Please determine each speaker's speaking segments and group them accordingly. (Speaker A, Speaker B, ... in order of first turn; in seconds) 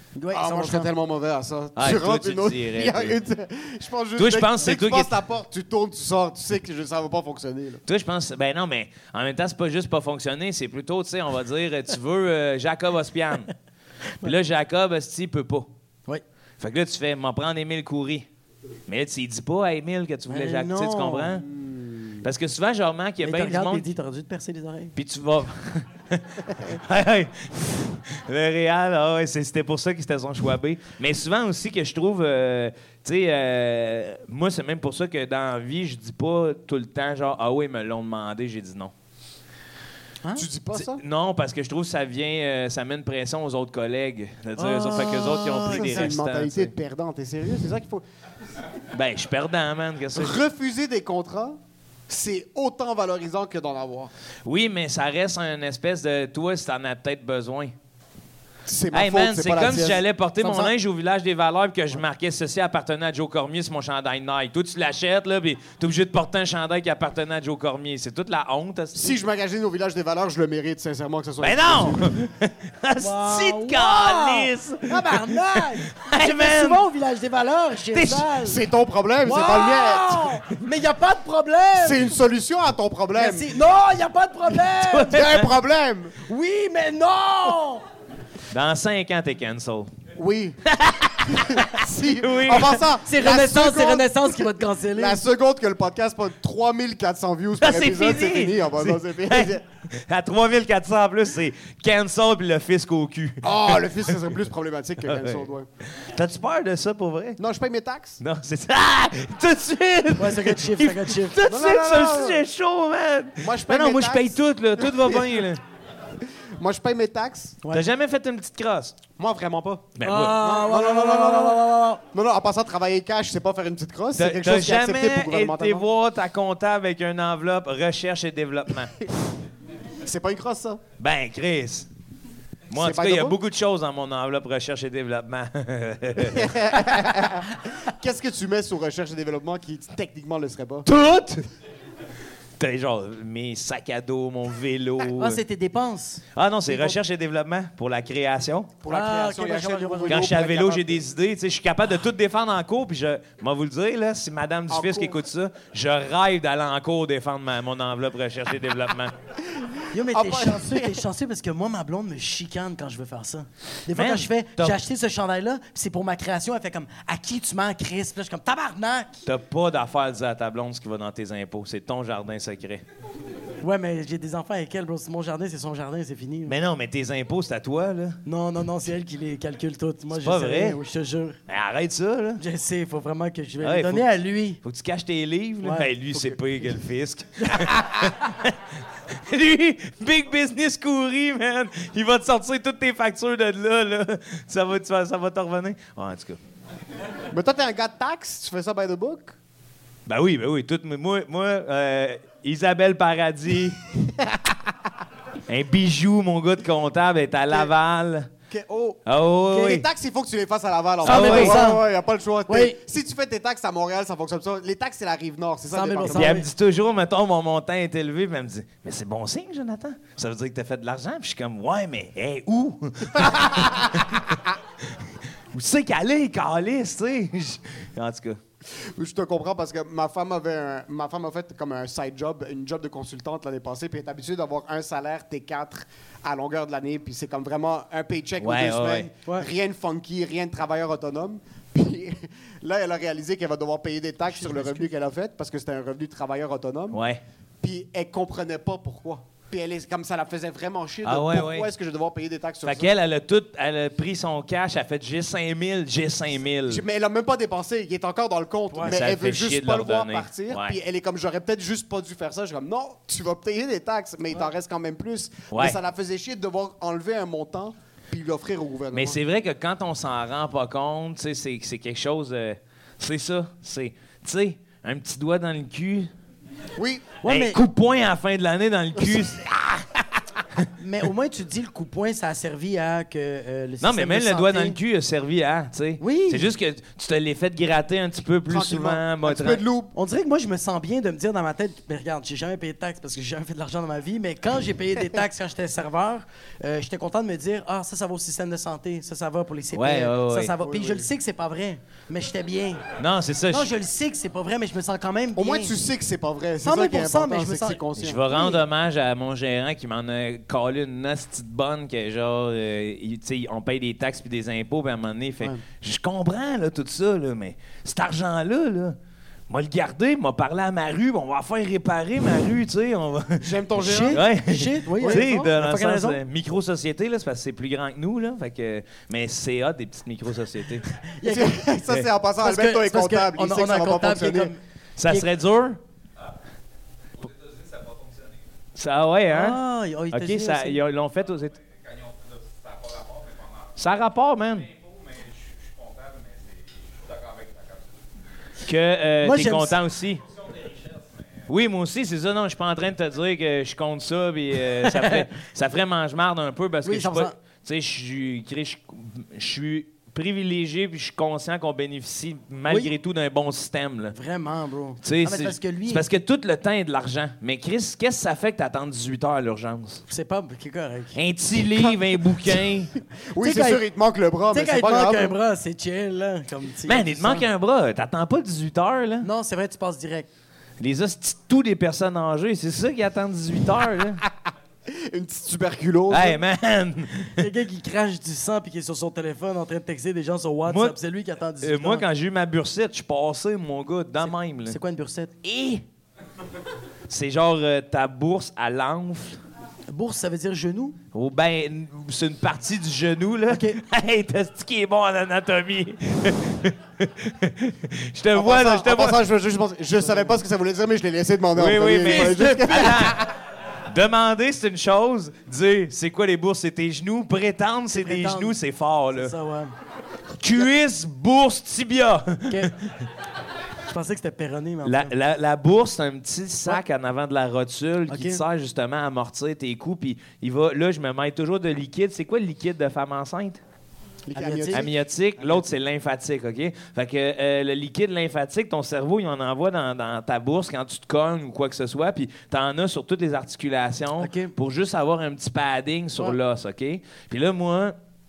Speaker A: 0.2-0.9, 20.3-21.3, 23.2-24.9, 44.6-46.1, 60.4-60.7, 73.0-78.6, 79.2-82.0, 83.2-85.2, 86.3-87.8, 93.1-95.2, 110.2-111.4, 120.0-122.0, 145.1-147.0, 148.9-150.3, 159.9-169.2, 173.6-176.5, 178.3-181.4, 182.4-184.6, 185.6-186.3, 211.0-211.8, 212.5-212.8, 215.7-216.5, 244.3-244.9, 258.7-259.0, 277.2-277.6, 280.8-284.8, 286.0-286.5, 289.9-302.8, 303.5-305.7, 306.6-307.8, 308.3-308.6, 323.8-326.2, 331.2-331.6, 332.4-335.3, 339.3-340.8, 349.2-349.8, 354.8-355.2, 356.8-357.4, 364.1-366.0, 370.1-371.2, 373.4-373.8, 374.5-377.5, 379.2-380.3, 387.4-392.1, 394.2-395.3, 399.9-401.0, 403.5-403.8, 412.1-412.9, 417.9-418.6, 419.1-419.7, 422.5-422.7, 423.9-425.1, 428.1-428.4, 434.4-434.9, 444.2-444.5
Speaker B: 0.3-7.8, 21.5-22.2, 40.4-41.0, 45.7-48.0, 50.1-51.6, 52.1-54.1, 58.7-60.0, 68.9-72.1, 78.4-80.3, 81.8-83.5, 85.1-86.2, 90.2-90.6, 91.2-99.6, 103.4-105.7, 107.4-108.2, 111.5-112.4, 113.4-115.3, 116.6-117.6, 119.2-125.8, 130.0-130.8, 132.8-133.4, 136.2-140.9, 148.8-151.0, 154.7-155.2, 159.6-161.0, 197.3-199.3, 208.5-209.0, 209.6-216.4, 223.2-223.9, 228.9-247.0, 247.6-252.9, 256.7-269.2, 276.8-277.1, 288.5-289.9, 300.6-301.1, 305.4-308.2, 323.4-324.2, 325.0-325.3, 331.2-334.5, 373.3-375.3, 384.9-386.4, 408.4-413.3, 434.3-434.9
Speaker C: 1.8-3.2, 4.2-5.1, 7.9-13.5, 14.2-15.7, 16.6-18.3, 18.9-21.5, 22.2-23.9, 25.0-38.9, 40.7-46.7, 48.9-50.4, 54.5-57.7, 58.9-69.2, 71.4-75.4, 75.9-76.8, 77.9-78.3, 84.8-85.5, 88.5-89.9, 90.7-92.8, 97.6-104.4, 105.0-105.5, 106.0-107.4, 108.2-115.6, 117.7-119.0, 120.0-120.4, 124.2-129.0, 131.0-131.9, 132.7-136.5, 140.9-141.4, 142.6-145.4, 146.4-148.7, 150.1-159.1, 163.9-164.8, 169.3-172.8, 176.5-178.2, 180.1-180.8, 181.5-182.4, 183.6-184.1, 184.6-188.6, 189.3-196.4, 200.1-203.8, 205.5-208.3, 209.1-209.8, 211.0-211.7, 216.1-224.4, 225.5-228.4, 238.4-239.1, 246.9-247.2, 251.0-251.7, 252.6-256.8, 258.8-260.8, 265.5-265.8, 268.9-276.1, 277.2-279.9, 283.8-289.6, 299.7-300.5, 303.0-303.7, 308.0-319.0, 319.5-330.9, 335.0-335.8, 338.8-339.6, 340.1-341.6, 343.8-344.7, 348.7-350.2, 351.5-364.2, 365.0-370.0, 371.1-372.9, 376.9-379.3, 380.8-384.2, 386.1-387.5, 390.7-391.0, 391.6-394.8, 395.4-395.8, 397.1-399.4, 401.1-409.2, 411.6-413.2, 413.9-419.3, 420.4-422.9, 424.8-433.6, 434.7-447.9